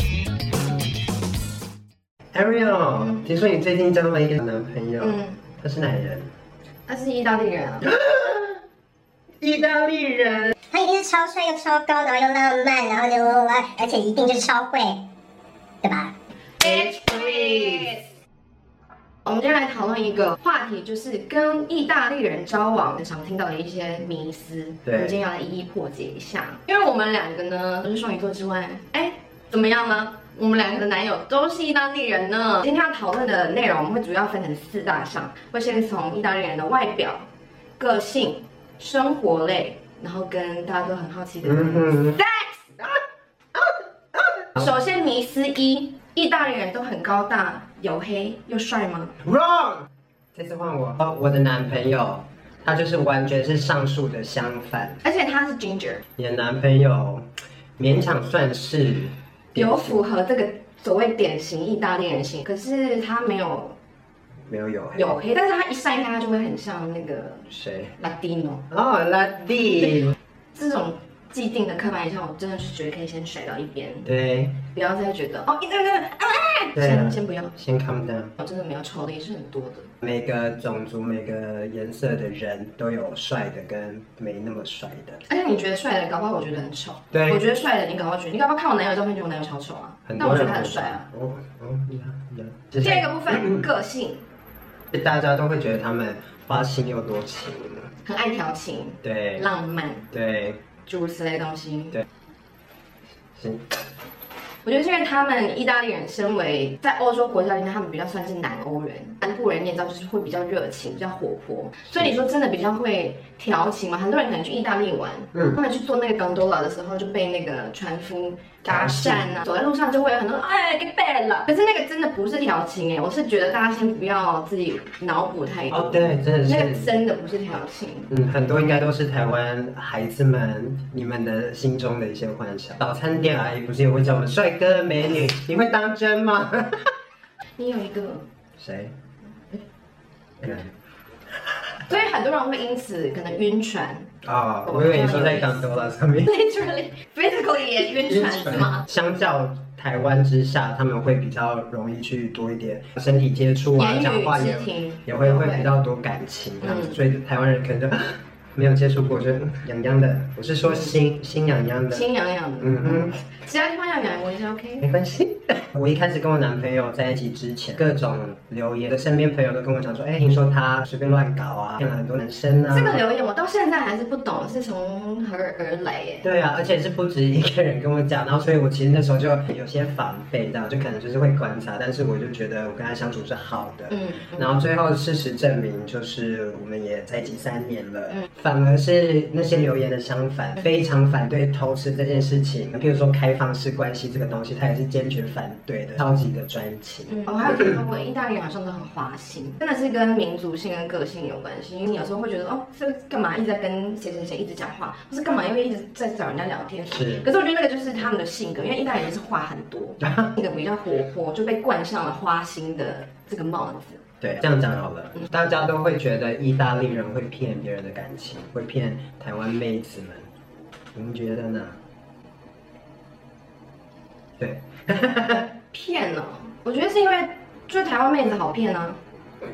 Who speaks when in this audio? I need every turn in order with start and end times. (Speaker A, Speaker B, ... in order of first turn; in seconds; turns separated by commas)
Speaker A: 2.3-6.3, Speaker B: 5.0-5.4, Speaker B: 6.9-8.0, Speaker A: 7.9-8.6, Speaker A: 9.4-10.6, Speaker C: 10.7-15.0, Speaker C: 15.8-16.1, Speaker B: 16.6-18.0, Speaker A: 16.7-17.9, Speaker B: 19.2-42.9, Speaker A: 24.9-25.2, Speaker A: 41.4-42.2, Speaker A: 43.5-44.6, Speaker B: 44.6-49.1, Speaker A: 49.2-55.0, Speaker B: 55.0-56.0, Speaker A: 56.2-60.0, Speaker B: 59.5-63.8, Speaker A: 64.5-65.2, Speaker B: 65.0-68.7, Speaker A: 67.5-68.0, Speaker A: 68.7-70.2, Speaker B: 70.5-74.1, Speaker A: 74.1-74.6, Speaker B: 74.7-77.5, Speaker A: 76.8-78.3, Speaker B: 78.4-79.9, Speaker A: 80.0-85.2, Speaker B: 85.3-91.1, Speaker A: 87.1-87.4, Speaker A: 90.1-93.7, Speaker B: 92.8-94.2, Speaker A: 94.9-97.9, Speaker B: 98.0-100.1, Speaker A: 99.0-99.5, Speaker A: 100.1-100.6, Speaker B: 100.8-102.0, Speaker A: 103.4-103.7, Speaker B: 104.6-128.1, Speaker A: 118.6-119.4, Speaker A: 125.7-126.9, Speaker A: 128.1-136.9, Speaker B: 137.6-138.3, Speaker A: 138.6-138.9, Speaker A: 140.4-140.7, Speaker B: 141.9-144.1, Speaker A: 144.2-146.3, Speaker B: 144.7-145.7, Speaker B: 146.2-148.8, Speaker A: 148.1-162.1, Speaker B: 153.8-155.7, Speaker B: 156.6-156.9, Speaker B: 161.9-164.9, Speaker A: 162.6-163.2, Speaker A: 164.8-173.0, Speaker B: 172.7-176.3, Speaker A: 176.2-197.7, Speaker B: 183.9-184.5, Speaker B: 197.2-214.0, Speaker A: 206.9-207.3, Speaker A: 210.0-210.3, Speaker A: 214.2-220.3, Speaker A: 220.9-221.8, Speaker A: 224.4-225.5, Speaker B: 225.7-229.0